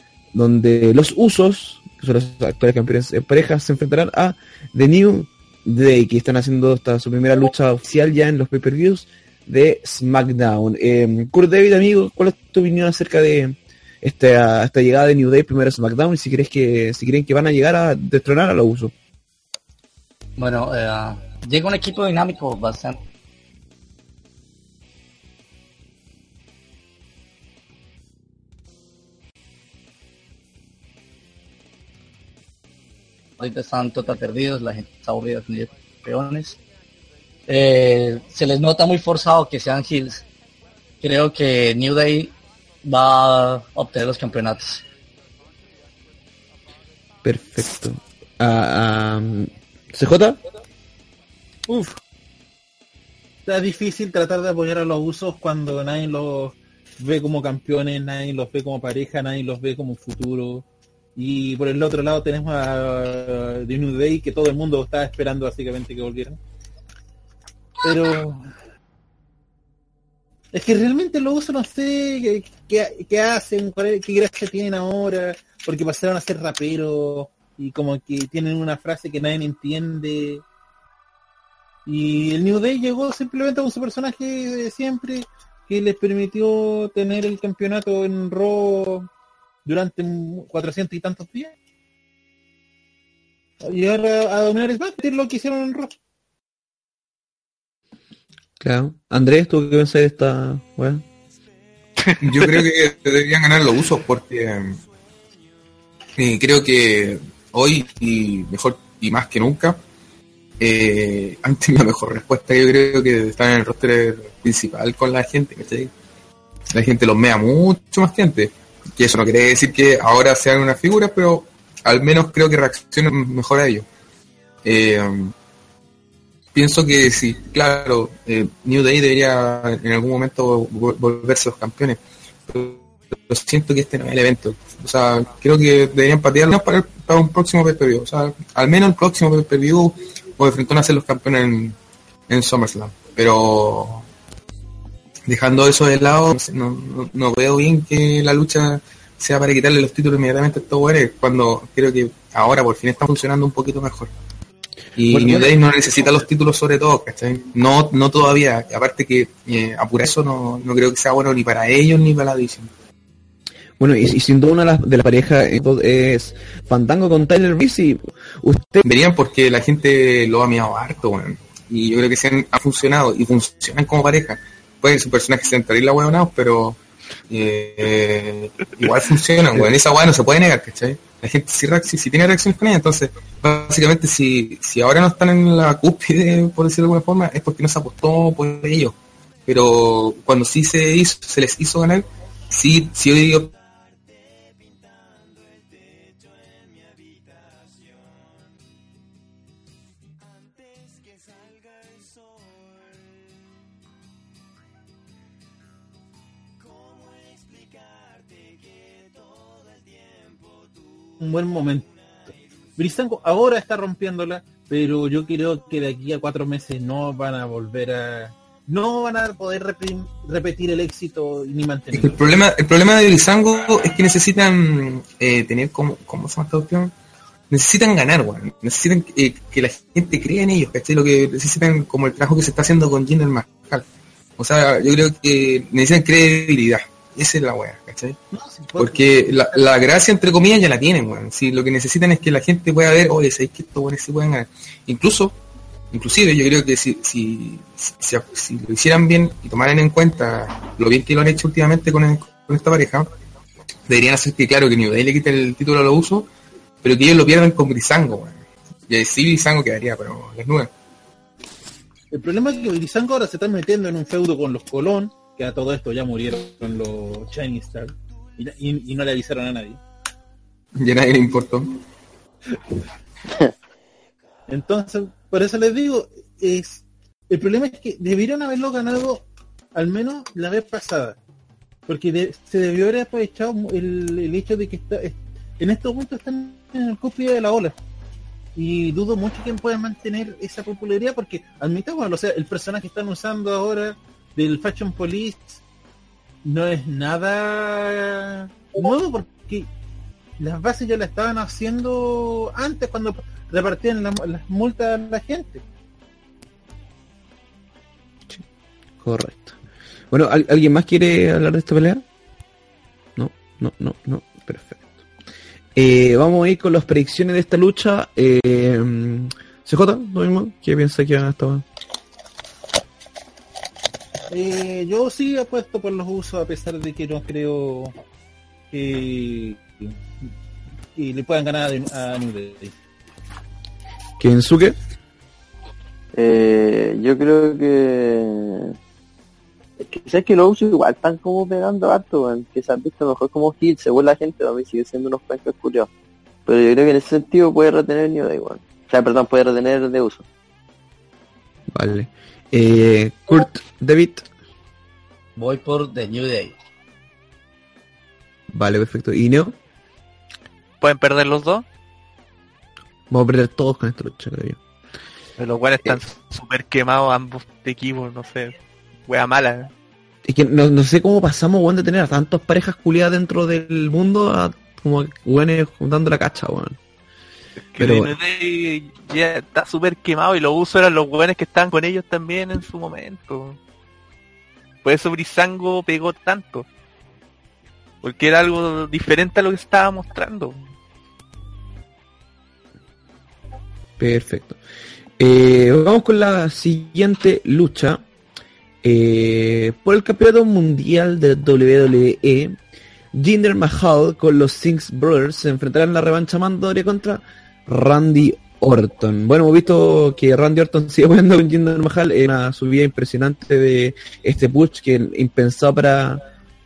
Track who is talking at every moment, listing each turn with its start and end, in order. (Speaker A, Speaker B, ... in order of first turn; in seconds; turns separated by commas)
Speaker A: 0.3-18.9, Speaker B: 20.4-23.0, Speaker B: 33.4-36.6, Speaker B: 37.5-40.2, Speaker B: 41.0-44.8, Speaker A: 47.2-50.4, Speaker C: 51.7-52.0, Speaker C: 53.5-60.6, Speaker C: 61.1-66.4, Speaker C: 67.8-68.5, Speaker C: 70.5-80.4, Speaker C: 81.8-89.1, Speaker C: 89.7-91.5, Speaker C: 93.6-95.9, Speaker A: 98.6-101.0, Speaker D: 102.0-102.4, Speaker E: 102.2-104.8, Speaker E: 106.2-109.8, Speaker E: 110.6-115.9, Speaker E: 116.7-123.8, Speaker E: 124.6-125.3, Speaker E: 126.5-141.8, Speaker E: 142.3-144.1, Speaker E: 145.3-154.1, Speaker E: 154.9-162.7, Speaker A: 155.1-155.5, Speaker A: 163.8-168.8, Speaker E: 168.8-188.9, Speaker E: 189.5-193.5, Speaker C: 211.2-211.9, Speaker C: 212.8-222.2, Speaker E: 221.9-226.9, Speaker E: 227.5-233.8, Speaker E: 234.4-238.2, Speaker C: 238.3-239.6, Speaker E: 238.8-245.4, Speaker E: 245.9-253.1, Speaker E: 253.9-256.3, Speaker E: 256.8-258.4, Speaker E: 258.9-260.7, Speaker C: 262.1-269.8, Speaker E: 270.8-271.8, Speaker C: 274.5-281.2, Speaker C: 281.9-287.8, Speaker C: 288.6-295.6, Speaker C: 296.4-299.7, Speaker C: 300.4-305.6, Speaker A: 309.0-309.6, Speaker A: 310.1-312.0, Speaker A: 313.1-314.9, Speaker A: 315.8-321.6, Speaker C: 324.3-327.9, Speaker C: 328.7-329.9, Speaker C: 330.9-332.7, Speaker A: 334.2-334.8, Speaker F: 336.1-338.8, Speaker F: 339.8-345.9, Speaker F: 346.4-350.2, Speaker A: 351.7-354.2, Speaker B: 355.4-356.6, Speaker A: 358.5-359.6, Speaker D: 360.8-361.6, Speaker A: 363.1-364.6, Speaker D: 365.4-368.6, Speaker D: 369.1-369.7, Speaker A: 370.2-376.8, Speaker D: 377.7-383.6, Speaker A: 377.8-378.1, Speaker D: 384.8-386.6, Speaker D: 388.0-390.6, Speaker A: 394.0-394.6, Speaker A: 395.2-398.0, Speaker A: 398.8-402.6, Speaker A: 403.1-416.2